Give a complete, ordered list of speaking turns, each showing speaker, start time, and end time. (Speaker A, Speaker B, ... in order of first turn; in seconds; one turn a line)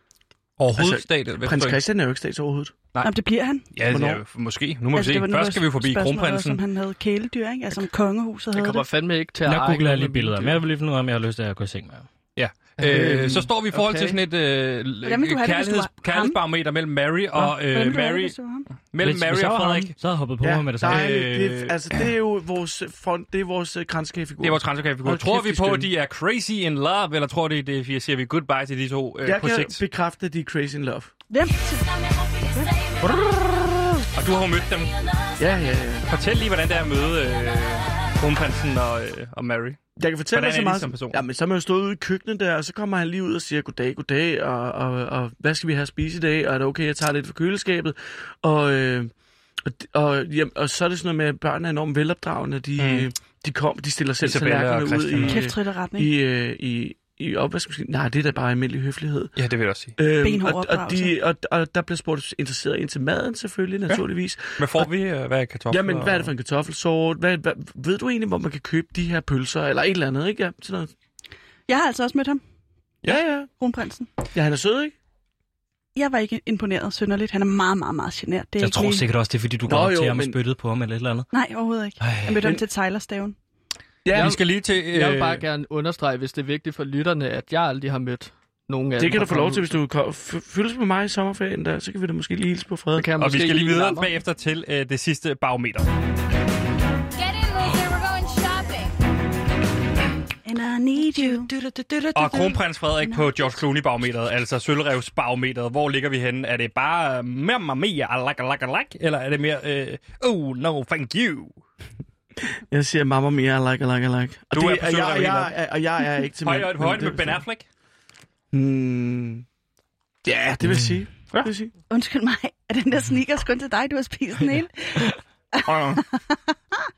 Speaker A: 0.6-1.8
Speaker B: 0.7-2.7
Speaker C: 3.0-3.7
Speaker A: 3.7-6.6
Speaker B: 3.8-4.2
Speaker C: 4.9-8.8
Speaker D: 8.5-10.6
Speaker E: 9.4-12.1
Speaker A: 12.3-19.9
Speaker D: 12.8-14.2
Speaker C: 15.0-16.4
Speaker C: 17.5-18.7
Speaker E: 19.0-21.0
Speaker B: 20.4-25.9
Speaker A: 20.8-21.8
Speaker A: 24.4-29.8
Speaker B: 29.2-31.1
Speaker C: 31.3-31.8
Speaker F: 31.6-33.3
Speaker A: 34.1-34.9
Speaker B: 35.4-36.0
Speaker A: 36.1-39.8
Speaker B: 40.0-49.1
Speaker A: 40.3-41.2
Speaker B: 49.6-59.3
Speaker A: 52.8-53.1
Speaker A: 54.2-55.4
Speaker C: 55.2-56.1
Speaker A: 59.4-60.0
Speaker B: 60.0-64.9
Speaker C: 60.2-61.1
Speaker A: 64.6-66.3
Speaker B: 65.7-70.9
Speaker C: 71.7-72.4
Speaker B: 73.0-73.5
Speaker C: 73.5-74.1
Speaker B: 74.3-74.9
Speaker C: 75.9-79.1
Speaker E: 78.6-81.2
Speaker B: 79.6-80.4
Speaker C: 81.3-83.3
Speaker E: 82.0-82.5
Speaker B: 84.0-84.4
Speaker A: 84.1-85.4
Speaker D: 84.1-89.6
Speaker B: 89.0-93.0
Speaker D: 92.9-94.1
Speaker A: 93.2-95.9
Speaker F: 97.1-98.9
Speaker C: 100.5-101.5
Speaker E: 101.2-102.6
Speaker A: 102.1-111.5
Speaker C: 103.0-103.5
Speaker B: 112.7-117.4
Speaker A: 114.5-115.5
Speaker A: 116.4-117.6
Speaker B: 118.5-119.4
Speaker B: 120.2-121.7
Speaker C: 121.9-126.8
Speaker A: 125.6-126.0